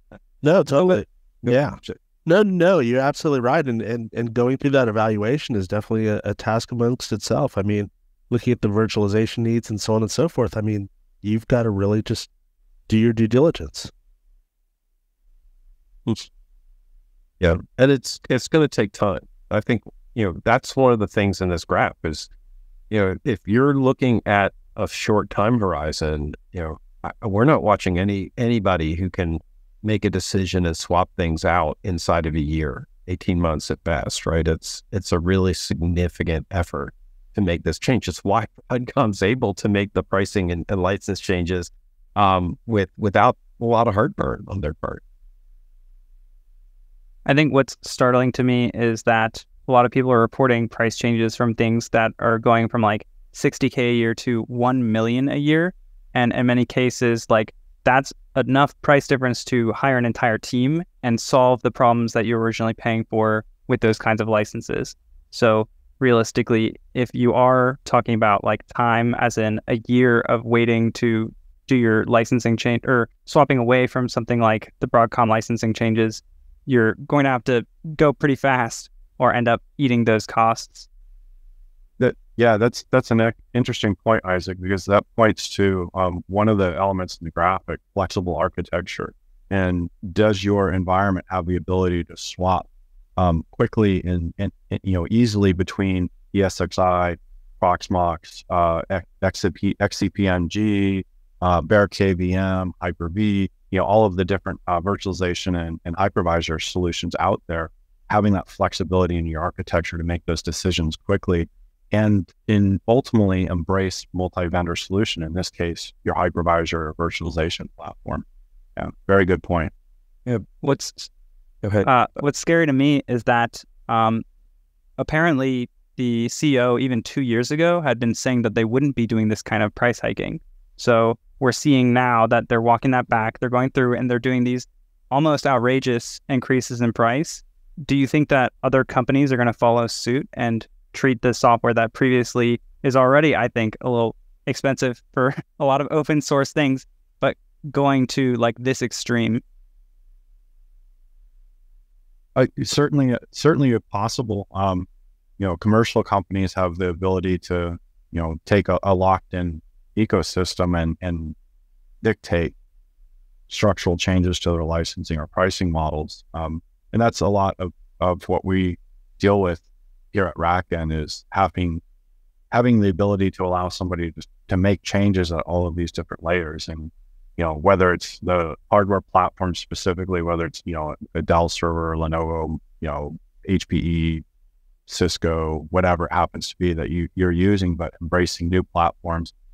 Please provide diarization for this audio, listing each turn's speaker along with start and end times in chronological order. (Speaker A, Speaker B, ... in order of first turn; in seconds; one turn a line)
Speaker A: 0.4-12.3
Speaker B: 1.4-1.9
Speaker A: 12.9-13.9
Speaker B: 17.4-22.3
Speaker B: 22.9-45.0
Speaker C: 47.2-80.9
Speaker D: 82.0-118.2
Speaker D: 118.8-119.7
Speaker B: 120.2-121.1
Speaker B: 121.6-121.9
Speaker C: 121.8-124.2
Speaker C: 125.0-149.4
Speaker D: 152.3-154.9
Speaker D: 155.4-161.3
Speaker D: 162.0-162.5
Speaker D: 163.5-171.8
Speaker D: 172.5-184.2
Speaker D: 184.9-189.3